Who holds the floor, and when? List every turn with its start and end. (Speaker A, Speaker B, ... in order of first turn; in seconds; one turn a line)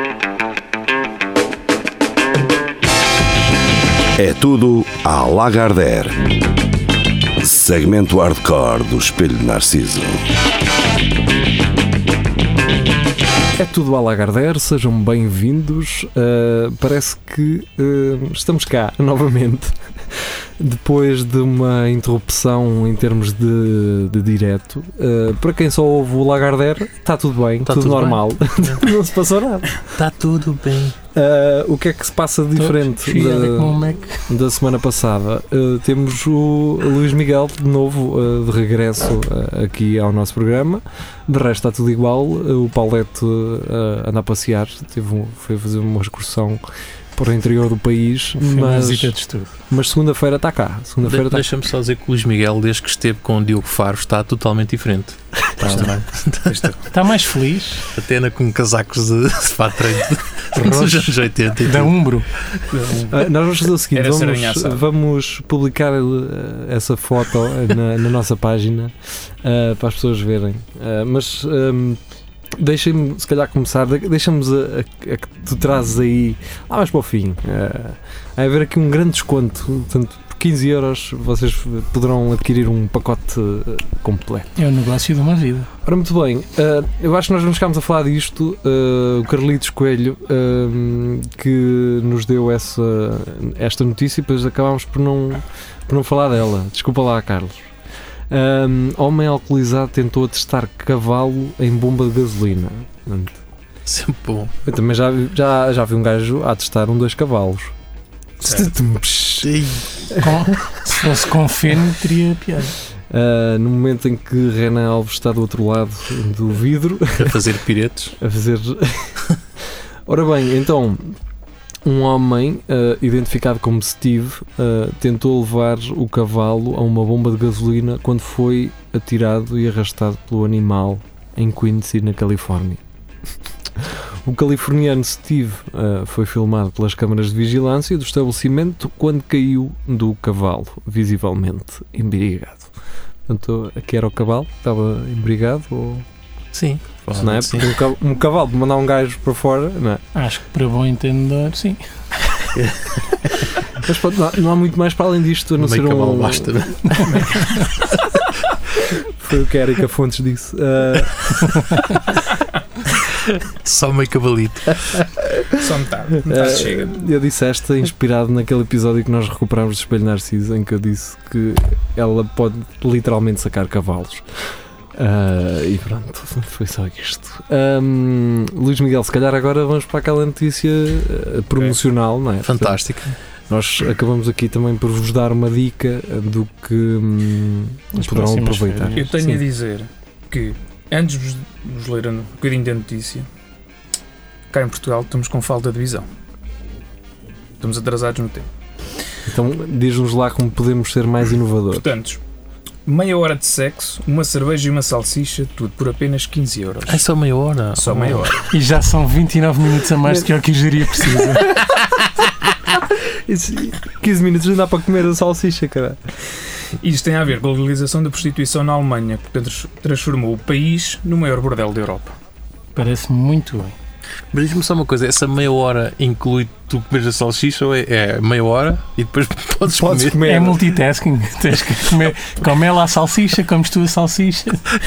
Speaker A: 4.2-6.3
Speaker A: 7.4-10.3
Speaker B: 13.6-19.7
Speaker B: 20.6-29.8
Speaker C: 27.6-28.9
Speaker C: 29.9-31.0
Speaker B: 31.1-46.6
Speaker D: 32.6-34.2
Speaker B: 47.2-49.1
Speaker D: 48.4-49.5
Speaker B: 49.7-51.5
Speaker C: 51.0-56.7
Speaker E: 56.5-56.8
Speaker D: 56.9-57.9
Speaker C: 57.9-62.0
Speaker D: 60.6-62.3
Speaker E: 62.7-63.3
Speaker B: 63.1-72.0
Speaker E: 63.9-64.8
Speaker B: 72.6-84.5
Speaker D: 84.6-85.7
Speaker B: 85.8-97.7
Speaker B: 98.3-103.3
Speaker C: 103.9-104.5
Speaker B: 104.7-107.7
Speaker B: 108.4-109.5
Speaker C: 109.4-110.1
Speaker D: 110.2-112.8
Speaker B: 113.1-117.4
Speaker C: 117.2-118.2
Speaker B: 118.2-119.2
Speaker B: 120.1-121.2
Speaker B: 121.8-132.8
Speaker B: 133.8-142.7
Speaker B: 143.3-146.0
Speaker C: 146.5-147.7
Speaker B: 147.2-150.0
Speaker D: 150.1-151.8
Speaker B: 153.8-157.1
Speaker C: 155.6-157.0
Speaker E: 157.1-157.8
Speaker D: 157.2-157.6
Speaker B: 159.0-161.5
Speaker C: 163.5-165.0
Speaker E: 165.6-167.0
Speaker B: 166.3-174.2
Speaker B: 174.9-182.8
Speaker C: 182.4-183.2
Speaker B: 183.5-189.4
Speaker D: 187.9-189.3
Speaker E: 188.9-193.3
Speaker E: 194.5-196.1
Speaker E: 197.6-198.5
Speaker B: 199.3-201.9
Speaker E: 201.7-202.2
Speaker E: 202.8-207.1
Speaker C: 206.8-208.3
Speaker E: 207.7-208.5
Speaker D: 208.5-211.6
Speaker B: 211.0-211.6
Speaker B: 212.7-216.0
Speaker E: 216.8-222.1
Speaker D: 222.7-223.7
Speaker C: 224.3-230.2
Speaker B: 229.6-230.8
Speaker D: 230.2-234.6